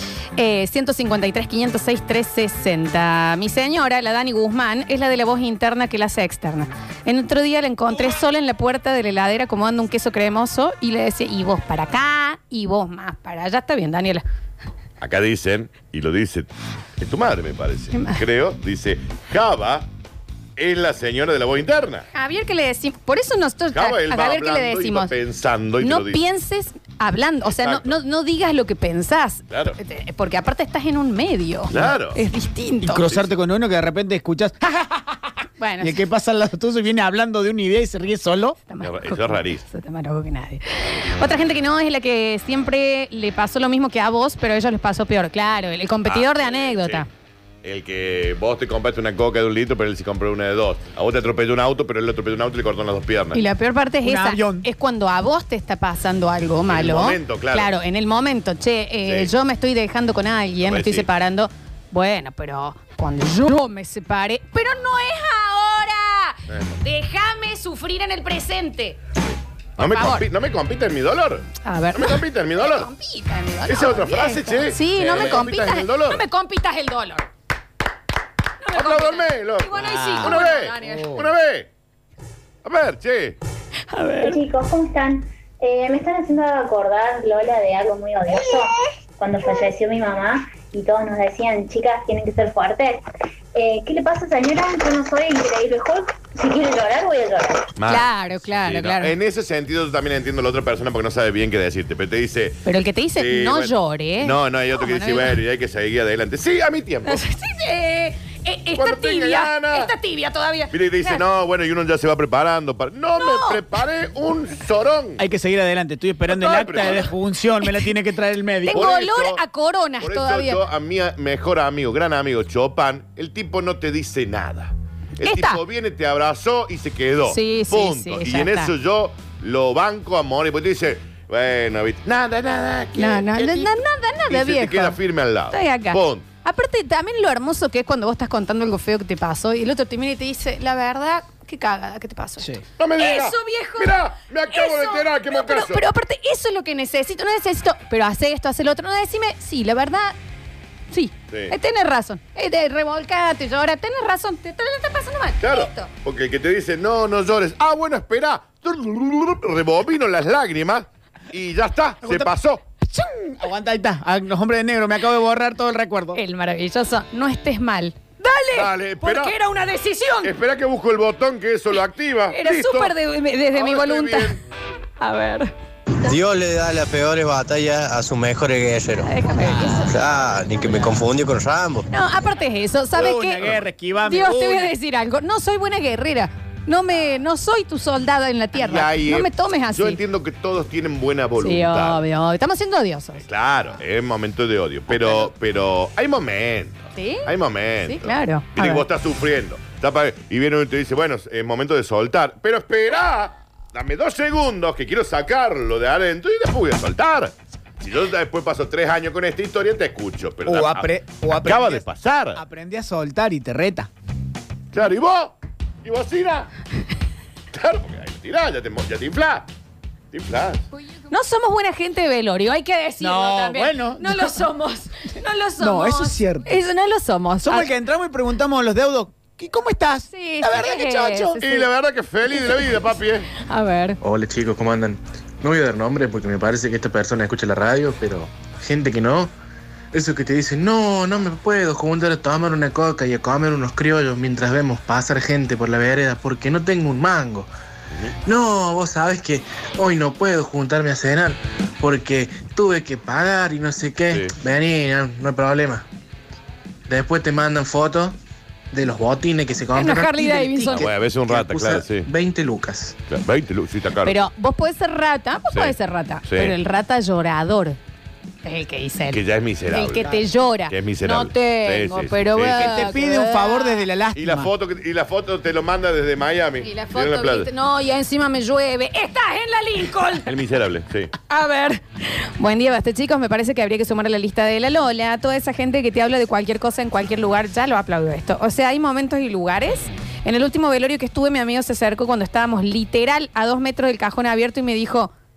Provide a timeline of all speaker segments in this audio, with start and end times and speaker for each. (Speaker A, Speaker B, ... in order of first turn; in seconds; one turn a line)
Speaker A: 0.4-14.2
Speaker B: 15.0-19.9
Speaker A: 17.9-18.2
Speaker B: 20.6-22.0
Speaker A: 22.1-25.1
Speaker B: 23.7-26.2
Speaker A: 25.8-33.0
Speaker B: 27.4-27.9
Speaker B: 29.5-29.8
Speaker B: 31.7-32.2
Speaker C: 32.8-35.2
Speaker B: 33.0-33.3
Speaker A: 35.6-36.0
Speaker C: 35.8-38.6
Speaker A: 38.7-47.1
Speaker B: 38.8-39.6
Speaker B: 46.0-47.0
Speaker B: 47.6-53.4
Speaker A: 53.3-69.0
Speaker C: 54.0-54.7
Speaker B: 56.6-57.7
Speaker B: 59.0-59.3
Speaker B: 60.6-61.1
Speaker B: 66.5-66.8
Speaker B: 69.8-72.9
Speaker A: 69.8-70.3
Speaker A: 71.6-77.3
Speaker B: 73.7-76.2
Speaker A: 78.6-81.2
Speaker B: 78.7-81.7
Speaker C: 79.7-80.4
Speaker C: 81.0-81.3
Speaker B: 82.6-83.3
Speaker A: 83.9-84.4
Speaker D: 84.2-93.0
Speaker A: 88.3-88.9
Speaker D: 93.5-97.7
Speaker B: 97.8-102.6
Speaker A: 97.8-99.1
Speaker A: 102.7-105.4
Speaker B: 103.2-107.2
Speaker A: 107.0-111.2
Speaker B: 108.8-109.9
Speaker B: 110.7-115.2
Speaker A: 113.1-113.6
Speaker C: 115.2-118.9
Speaker B: 116.3-117.2
Speaker A: 116.8-117.1
Speaker A: 117.6-117.9
Speaker A: 118.6-120.6
Speaker B: 118.7-119.4
Speaker B: 120.0-136.2
Speaker A: 125.2-125.6
Speaker A: 127.3-128.7
Speaker A: 132.9-135.0
Speaker A: 135.5-150.2
Speaker B: 142.8-145.8
Speaker A: 150.9-155.9
Speaker B: 155.4-162.6
Speaker C: 162.0-162.3
Speaker C: 162.8-166.2
Speaker A: 166.1-170.3
Speaker B: 168.5-169.3
Speaker B: 170.2-172.9
Speaker A: 172.3-174.4
Speaker B: 173.5-174.4
Speaker A: 175.0-175.5
Speaker E: 176.0-179.1
Speaker A: 179.0-179.9
Speaker C: 179.3-179.9
Speaker E: 179.8-181.8
Speaker A: 181.9-190.0
Speaker C: 182.9-184.7
Speaker B: 188.6-192.0
Speaker A: 191.4-193.2
Speaker B: 193.2-212.4
Speaker A: 195.0-195.3
Speaker A: 196.9-197.3
Speaker A: 197.8-198.8
Speaker C: 210.4-213.9
Speaker B: 214.7-216.5
Speaker B: 217.5-219.5
Speaker B: 220.1-220.6
Speaker A: 221.1-227.7
Speaker C: 223.0-224.4
Speaker C: 225.6-226.6
Speaker C: 227.4-231.4
Speaker A: 230.1-231.7
Speaker B: 231.4-233.3
Speaker A: 233.3-234.0
Speaker F: 234.0-239.3
Speaker F: 239.9-247.5
Speaker F: 248.2-255.8
Speaker B: 254.1-254.3
Speaker F: 256.9-258.1
Speaker F: 258.7-262.9
Speaker A: 259.7-260.9
Speaker B: 260.7-262.1
Speaker B: 263.1-264.2
Speaker A: 264.0-267.8
Speaker B: 265.5-266.6
Speaker A: 268.4-273.9
Speaker B: 269.1-272.8
Speaker C: 272.5-274.5
Speaker B: 274.1-277.5
Speaker A: 276.6-280.3
Speaker B: 280.2-281.1
Speaker A: 281.3-295.1